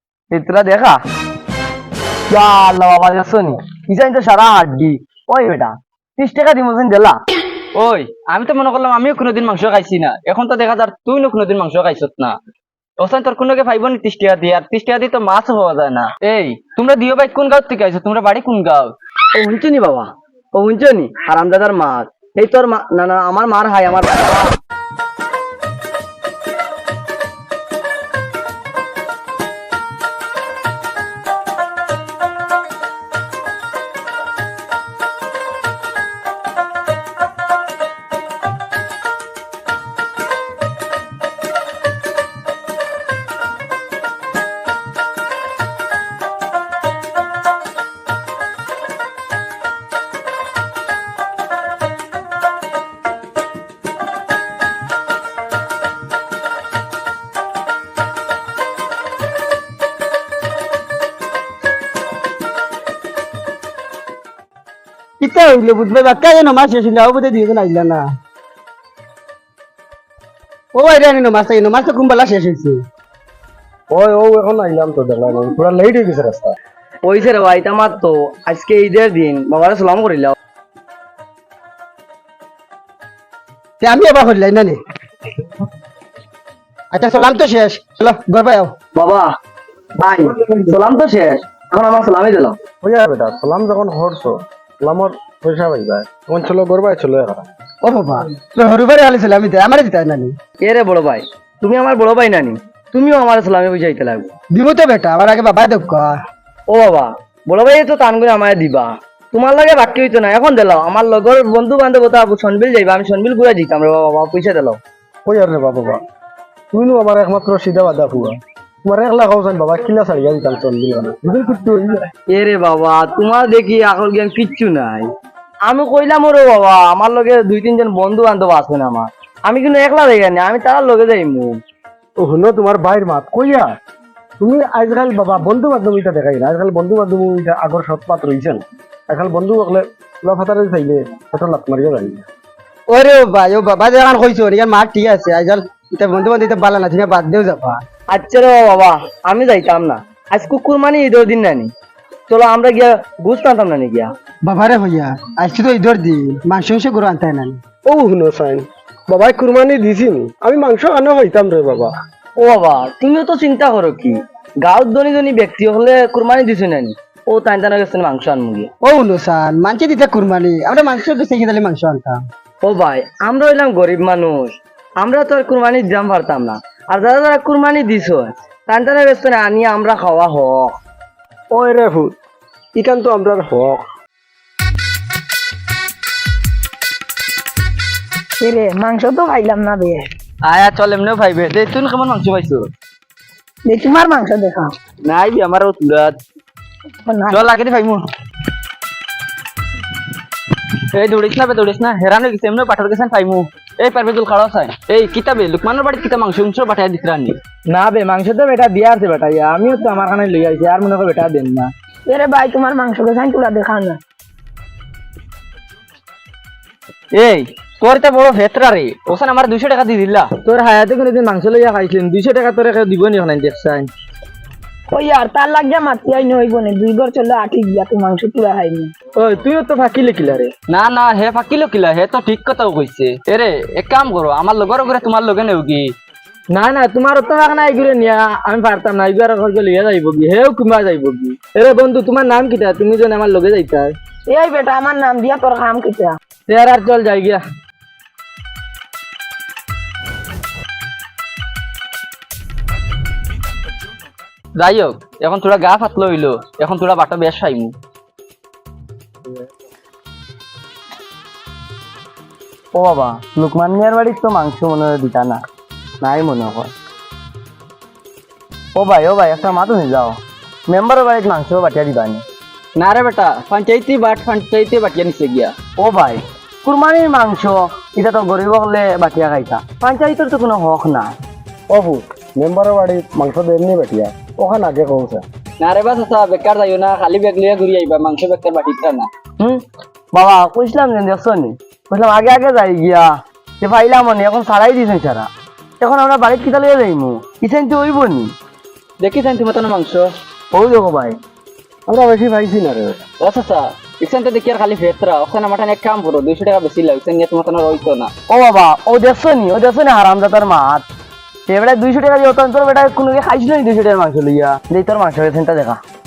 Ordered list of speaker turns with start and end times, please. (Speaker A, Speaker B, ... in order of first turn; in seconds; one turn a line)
Speaker A: 0.3-1.0
Speaker A: 2.3-7.2
Speaker B: 7.8-12.4
Speaker B: 13.0-18.9
Speaker A: 19.3-24.6
Speaker C: 65.2-68.1
Speaker C: 70.7-72.8
Speaker D: 73.9-76.6
Speaker A: 77.0-80.3
Speaker C: 83.8-84.8
Speaker C: 86.9-88.7
Speaker A: 89.0-89.3
Speaker A: 90.0-92.6
Speaker D: 92.8-97.5
Speaker C: 97.8-100.4
Speaker A: 100.6-104.3
Speaker C: 104.5-106.1
Speaker A: 106.7-114.8
Speaker D: 115.2-116.0
Speaker D: 116.7-122.1
Speaker A: 122.3-125.1
Speaker A: 125.7-131.6
Speaker D: 132.2-133.7
Speaker D: 134.4-142.2
Speaker C: 142.9-147.8
Speaker A: 148.1-151.7
Speaker A: 152.3-154.1
Speaker C: 154.4-157.6
Speaker D: 157.8-161.9
Speaker A: 162.4-168.7
Speaker C: 168.8-172.2
Speaker A: 172.6-180.8
Speaker D: 181.5-182.2
Speaker D: 182.8-183.8
Speaker E: 188.4-190.1
Speaker B: 190.4-192.7
Speaker E: 193.7-194.7
Speaker B: 195.0-196.2
Speaker E: 197.1-197.4
Speaker B: 197.3-198.1
Speaker B: 200.7-207.4
Speaker B: 209.3-209.8
Speaker E: 212.1-214.0
Speaker B: 217.1-220.4
Speaker E: 224.9-228.9
Speaker B: 230.7-235.9
Speaker B: 237.1-240.2
Speaker B: 240.8-243.7
Speaker E: 244.3-246.2
Speaker B: 246.5-247.4
Speaker B: 254.6-257.7
Speaker A: 262.7-265.4
Speaker A: 266.0-266.7
Speaker A: 268.8-270.2
Speaker A: 270.7-272.2
Speaker B: 272.8-275.5
Speaker A: 275.8-281.1
Speaker D: 281.7-285.2
Speaker B: 285.6-289.1
Speaker A: 290.1-298.3
Speaker B: 299.0-300.1
Speaker A: 300.5-301.2
Speaker D: 301.9-303.0
Speaker B: 303.2-308.1
Speaker A: 308.3-310.9
Speaker A: 311.5-315.8